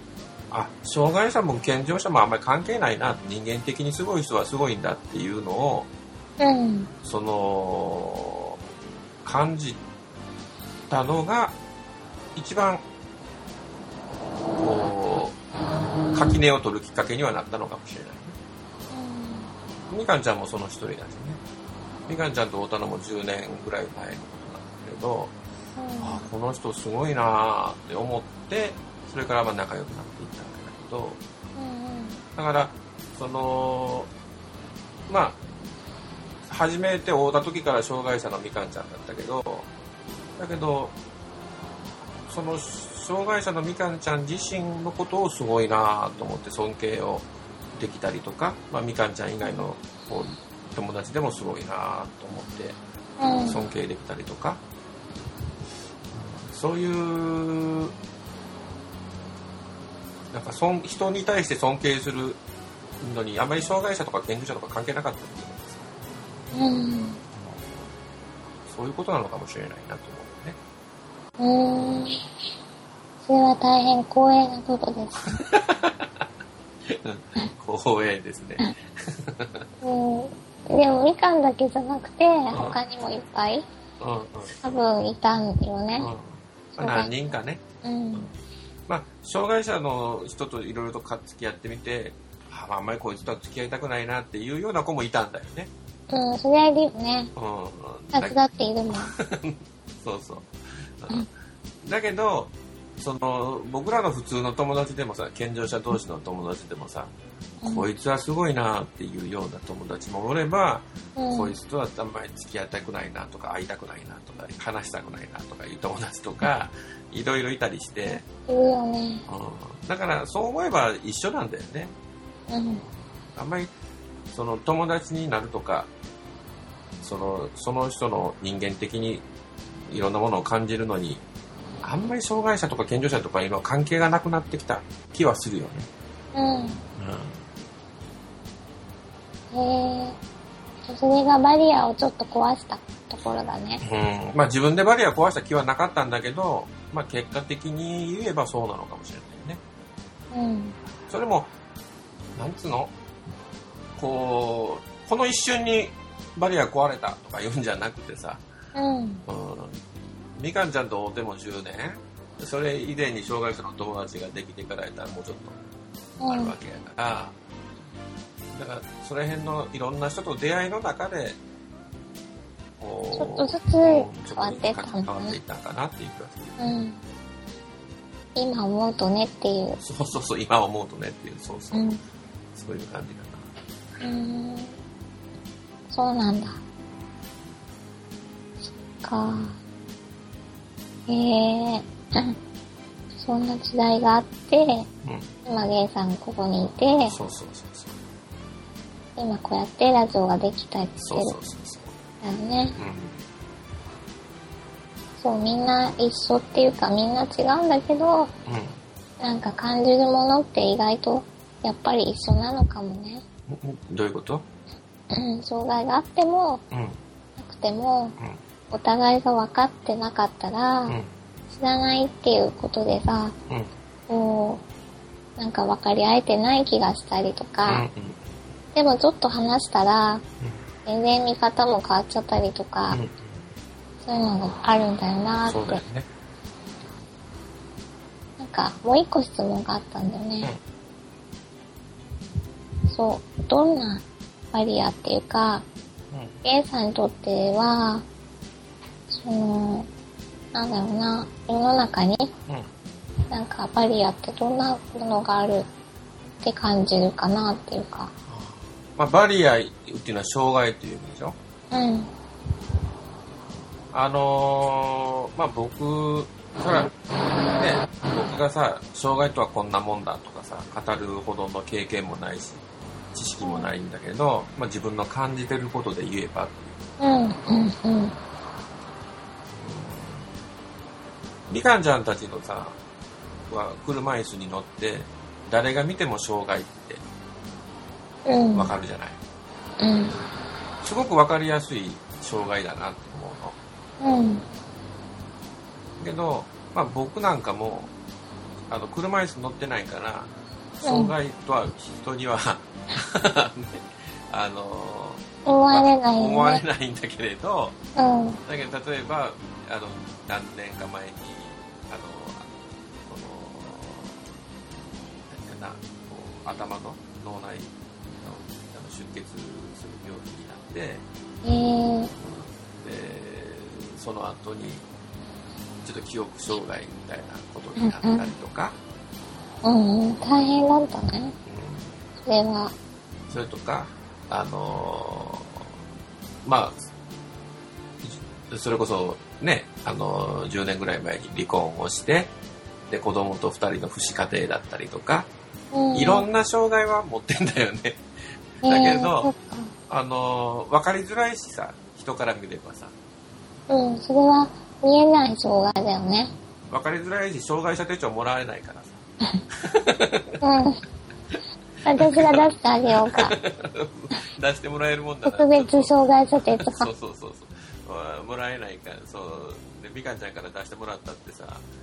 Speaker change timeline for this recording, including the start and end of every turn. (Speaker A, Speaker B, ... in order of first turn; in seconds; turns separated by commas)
Speaker A: 0.5-5.9, Speaker B: 6.4-6.9, Speaker A: 7.0-8.6, Speaker A: 9.2-9.8, Speaker A: 10.9-11.6, Speaker A: 12.3-12.8, Speaker A: 14.6-15.4, Speaker A: 16.1-18.4, Speaker B: 18.9-19.5, Speaker A: 19.9-21.4, Speaker A: 22.1-25.3, Speaker B: 25.8-26.3, Speaker A: 26.0-31.2, Speaker B: 31.6-32.2, Speaker A: 32.4-34.1, Speaker A: 35.1-35.4, Speaker A: 36.5-39.7, Speaker A: 40.4-41.0, Speaker A: 42.3-52.8, Speaker B: 53.2-53.6, Speaker A: 53.5-54.6, Speaker A: 56.1-57.9, Speaker A: 60.3-62.4, Speaker A: 63.0-65.8, Speaker B: 66.5-67.2, Speaker A: 67.3-67.8, Speaker A: 68.7-70.6, Speaker B: 71.4-72.2, Speaker B: 73.2-75.4, Speaker A: 75.4-76.2, Speaker A: 76.9-79.7, Speaker B: 79.8-83.7, Speaker A: 82.5-82.8, Speaker A: 84.0-84.6, Speaker B: 84.6-86.1, Speaker A: 86.0-87.6, Speaker B: 86.8-87.2, Speaker B: 87.8-88.3, Speaker A: 88.9-95.7, Speaker B: 96.1-97.3, Speaker A: 97.4-98.4, Speaker B: 98.1-99.1, Speaker A: 98.9-100.5, Speaker A: 101.0-101.3, Speaker A: 101.8-107.1, Speaker B: 107.6-107.9, Speaker A: 107.7-118.3, Speaker B: 111.2-111.5, Speaker B: 118.1-119.2, Speaker A: 119.3-121.9, Speaker B: 122.5-122.8, Speaker A: 123.3-123.7, Speaker A: 124.3-125.9, Speaker A: 127.0-129.2, Speaker A: 129.9-131.2, Speaker A: 131.8-135.9, Speaker B: 136.3-136.8, Speaker A: 137.0-137.4, Speaker B: 139.5-140.2, Speaker B: 140.8-143.8, Speaker A: 143.8-149.6, Speaker B: 150.3-150.8, Speaker A: 151.1-151.5, Speaker A: 152.4-152.9, Speaker A: 154.0-158.4, Speaker B: 158.8-159.2, Speaker A: 159.3-159.8, Speaker A: 160.4-165.6, Speaker B: 166.2-166.5, Speaker A: 166.2-167.3, Speaker A: 168.5-171.4, Speaker A: 172.8-176.6, Speaker B: 173.2-175.4, Speaker B: 176.6-177.0, Speaker B: 178.4-179.8, Speaker A: 179.8-181.9, Speaker B: 181.7-182.0, Speaker A: 182.6-183.5, Speaker B: 184.0-184.8, Speaker B: 185.9-186.6, Speaker B: 188.6-189.6, Speaker B: 191.1-192.4, Speaker B: 193.2-194.9, Speaker A: 195.0-195.3, Speaker B: 195.5-197.2, Speaker A: 197.1-198.0, Speaker B: 199.2-201.4, Speaker A: 201.0-201.9, Speaker B: 202.2-202.8, Speaker A: 202.8-203.2, Speaker B: 205.2-208.3, Speaker A: 208.5-208.8, Speaker B: 209.2-213.2, Speaker A: 213.5-214.4, Speaker B: 215.1-216.6, Speaker A: 216.7-217.0, Speaker B: 217.4-218.2, Speaker B: 218.7-221.0, Speaker B: 221.5-223.3, Speaker B: 224.1-224.6, Speaker B: 225.4-227.9, Speaker A: 227.7-228.2, Speaker B: 228.8-230.2, Speaker B: 230.9-233.0, Speaker A: 232.9-233.4, Speaker B: 234.0-235.8, Speaker A: 235.5-236.1, Speaker B: 238.4-240.5, Speaker B: 242.9-245.7, Speaker A: 246.1-246.4, Speaker B: 246.4-248.0, Speaker B: 249.1-249.9, Speaker B: 250.5-252.3, Speaker B: 253.3-255.7, Speaker B: 256.4-258.1, Speaker A: 258.3-261.4, Speaker B: 261.7-262.1, Speaker A: 263.9-266.9, Speaker A: 267.6-272.6, Speaker A: 273.1-276.7, Speaker B: 273.4-273.7, Speaker B: 277.0-278.1, Speaker A: 279.5-280.3, Speaker A: 281.5-282.8, Speaker A: 283.5-287.0, Speaker B: 288.3-288.7, Speaker A: 288.6-289.2, Speaker B: 289.8-290.2, Speaker A: 290.8-293.6, Speaker B: 294.0-294.5, Speaker A: 296.0-297.9, Speaker A: 298.7-307.8, Speaker B: 300.9-301.1, Speaker B: 305.4-306.6, Speaker B: 308.0-308.4, Speaker A: 308.5-312.5, Speaker A: 313.1-314.2, Speaker A: 315.3-321.0, Speaker B: 321.4-322.1, Speaker A: 322.2-324.9, Speaker A: 325.8-328.8, Speaker B: 327.8-328.3, Speaker B: 329.6-331.4, Speaker A: 331.5-332.1, Speaker B: 332.2-332.7, Speaker A: 333.3-335.7, Speaker A: 336.4-336.9, Speaker A: 338.0-342.3, Speaker A: 342.9-345.3, Speaker B: 345.7-346.3, Speaker A: 345.9-348.0, Speaker A: 348.6-349.3, Speaker B: 348.6-349.7, Speaker A: 349.9-352.9, Speaker B: 353.7-356.3, Speaker A: 356.7-359.0, Speaker A: 359.5-360.4, Speaker B: 360.4-360.8, Speaker B: 361.9-363.4, Speaker A: 362.0-362.4, Speaker A: 363.1-365.9, Speaker B: 365.2-366.9, Speaker A: 366.6-371.6